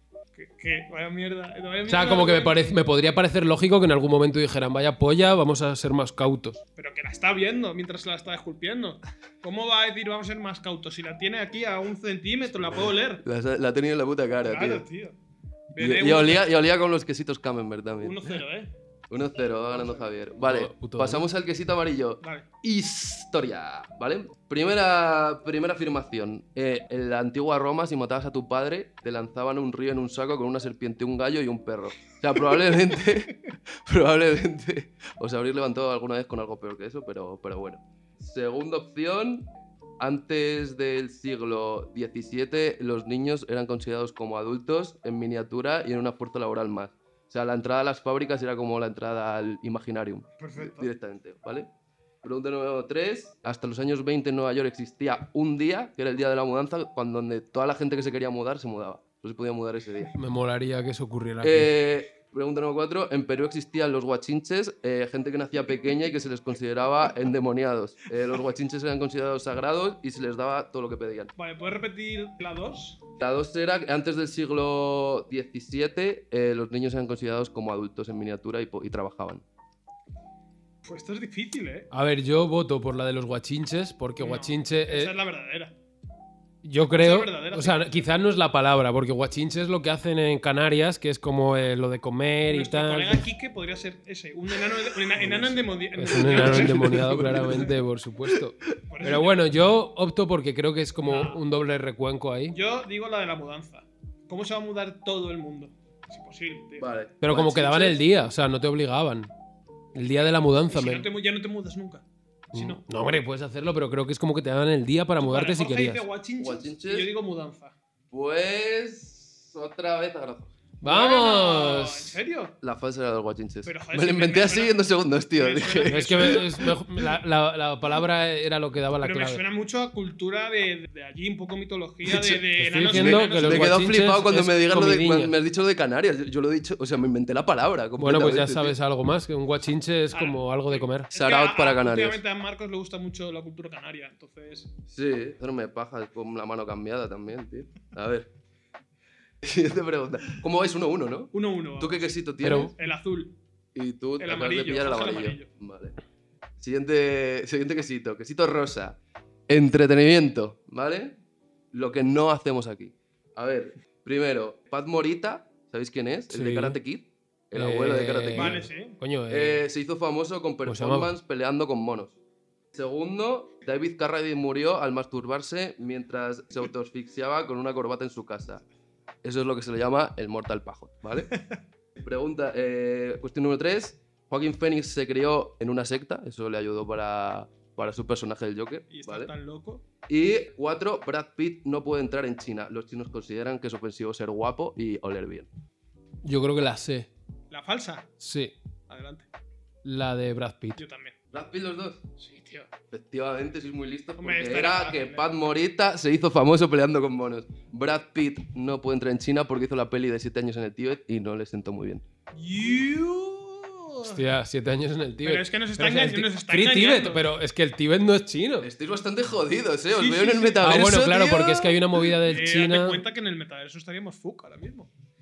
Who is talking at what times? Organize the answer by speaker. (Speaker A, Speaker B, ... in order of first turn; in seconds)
Speaker A: 0.3-2.6, 6.8-13.2, 14.4-15.2, 15.7-16.5, 18.0-18.7, 19.7-20.1, 22.2-22.5, 50.4-50.9, 71.4-73.0, 80.8-81.9, 84.2-85.7, 87.0-88.1, 92.5-97.7, 98.9-99.4, 101.0-101.4, 102.5-106.9, 110.0-112.8, 115.2-117.7, 120.8-122.6, 123.6-124.8, 125.3-126.7, 129.0-133.7, 140.1-144.7, 151.3-153.3, 154.2-155.5, 168.3-169.0, 188.9-189.8, 197.5-198.1, 198.9-199.3, 200.8-201.2, 202.2-202.7, 204.2-205.3, 212.3-214.2, 215.2-217.2, 219.9-220.9, 222.3-224.9
Speaker B: 1.9-6.6, 20.4-21.2, 60.1-61.7, 81.9-85.2, 86.6-93.2, 96.0-102.5, 107.2-109.3, 109.9-111.1, 112.5-116.0, 120.8-122.1, 125.8-129.4, 132.6-135.3, 138.0-141.1, 152.4-152.7, 166.3-166.8, 167.5-169.7, 170.7-171.1, 196.2-197.1, 198.2-198.5, 199.8-200.8, 214.0-218.7, 220.6-223.0
Speaker C: 13.2-14.8, 15.8-18.4, 19.1-39.5, 40.0-51.7, 52.2-60.1, 61.4-71.3, 73.2-79.4, 95.2-95.5, 96.2-97.7, 106.8-108.0, 116.4-117.1, 118.1-120.5, 122.6-126.7, 132.1-138.8, 141.1-142.2, 144.9-148.3, 149.4-152.7, 153.7-156.0, 156.6-159.0, 159.5-161.2, 161.7-168.6, 169.3-172.2, 172.7-178.6, 179.2-181.3, 182.0-189.3, 190.1-195.5, 201.3-202.0, 202.9-212.0, 218.6-221.8